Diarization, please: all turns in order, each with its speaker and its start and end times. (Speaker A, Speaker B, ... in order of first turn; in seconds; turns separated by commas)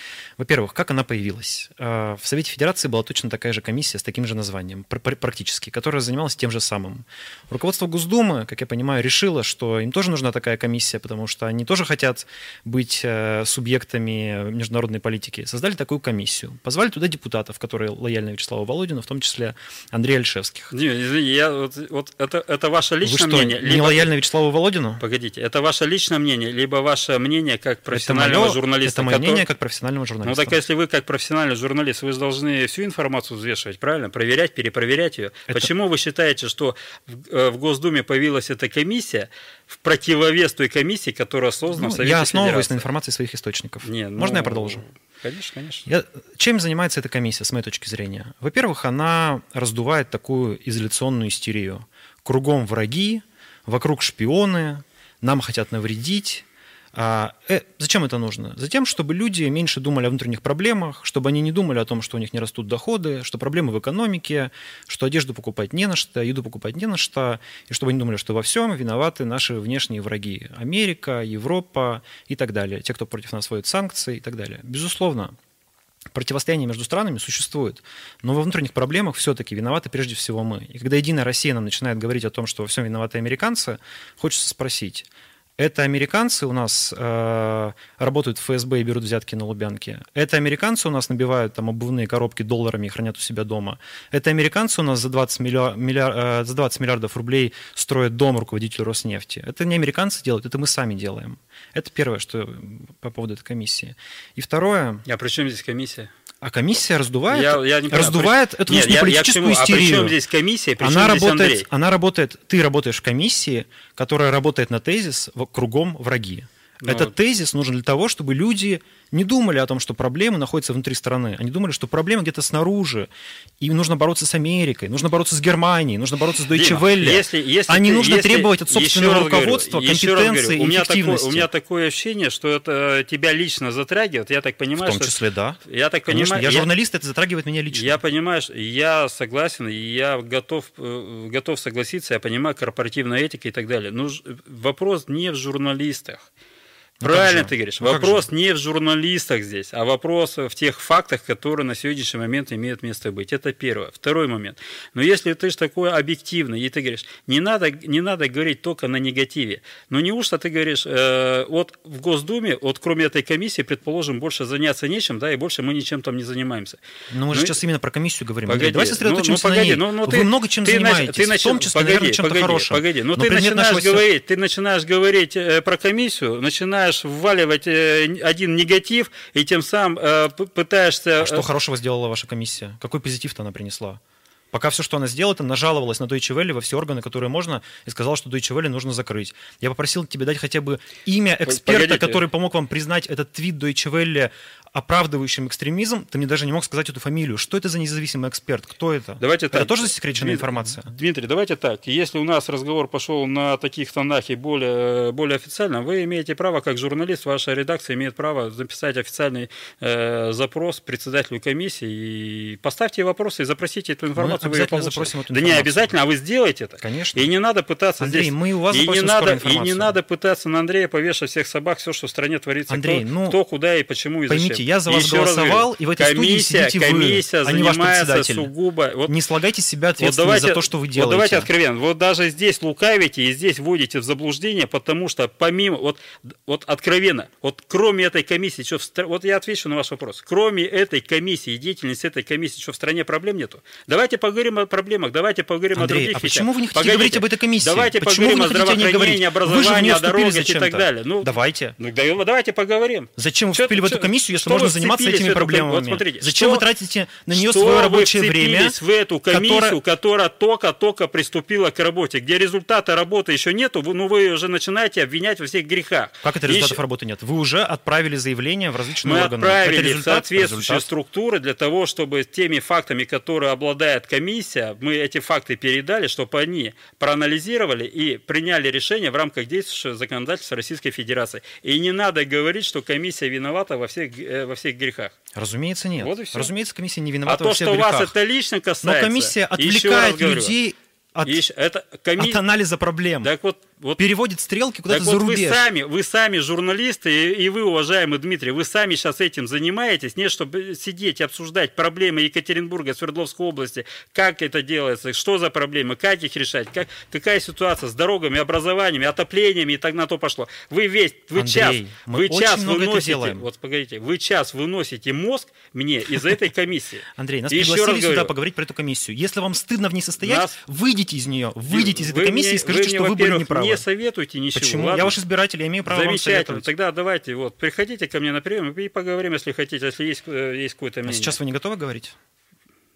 Speaker A: 0.4-20.7, Speaker B: 20.7-24.1, Speaker A: 23.0-25.0, Speaker B: 25.0-29.5, Speaker A: 27.9-30.6, Speaker B: 30.2-42.8, Speaker A: 41.7-44.8, Speaker B: 43.8-45.9, Speaker A: 45.9-75.3, Speaker A: 76.1-85.1, Speaker A: 85.6-105.0, Speaker B: 105.0-106.1, Speaker A: 106.4-110.2, Speaker B: 107.3-111.7, Speaker A: 110.8-131.5, Speaker B: 116.8-117.1, Speaker B: 126.5-136.7, Speaker A: 134.8-138.0, Speaker B: 137.7-146.3, Speaker A: 147.0-148.3, Speaker B: 147.0-166.8, Speaker A: 167.1-174.0, Speaker B: 167.3-167.6, Speaker B: 168.4-181.5, Speaker A: 181.2-184.0, Speaker A: 184.5-200.9, Speaker B: 191.4-192.3, Speaker B: 199.2-229.2, Speaker A: 214.1-215.9, Speaker A: 216.8-217.3, Speaker A: 218.0-219.9, Speaker A: 222.7-223.4, Speaker A: 224.3-228.5, Speaker A: 229.1-231.5, Speaker B: 230.0-256.6, Speaker A: 245.7-251.8, Speaker A: 253.2-258.8, Speaker B: 257.3-266.8, Speaker A: 259.3-259.8, Speaker A: 266.2-270.9, Speaker B: 269.0-285.1, Speaker A: 285.3-288.1, Speaker B: 286.0-286.5, Speaker B: 287.2-290.6, Speaker A: 288.8-291.4, Speaker B: 291.2-292.4, Speaker A: 292.2-293.3, Speaker B: 293.2-294.0, Speaker A: 294.0-295.6, Speaker B: 294.9-318.3, Speaker A: 311.3-313.5, Speaker A: 317.1-323.8, Speaker B: 320.2-320.6, Speaker B: 321.7-325.2, Speaker A: 324.5-326.7, Speaker B: 325.9-331.4, Speaker A: 331.0-332.1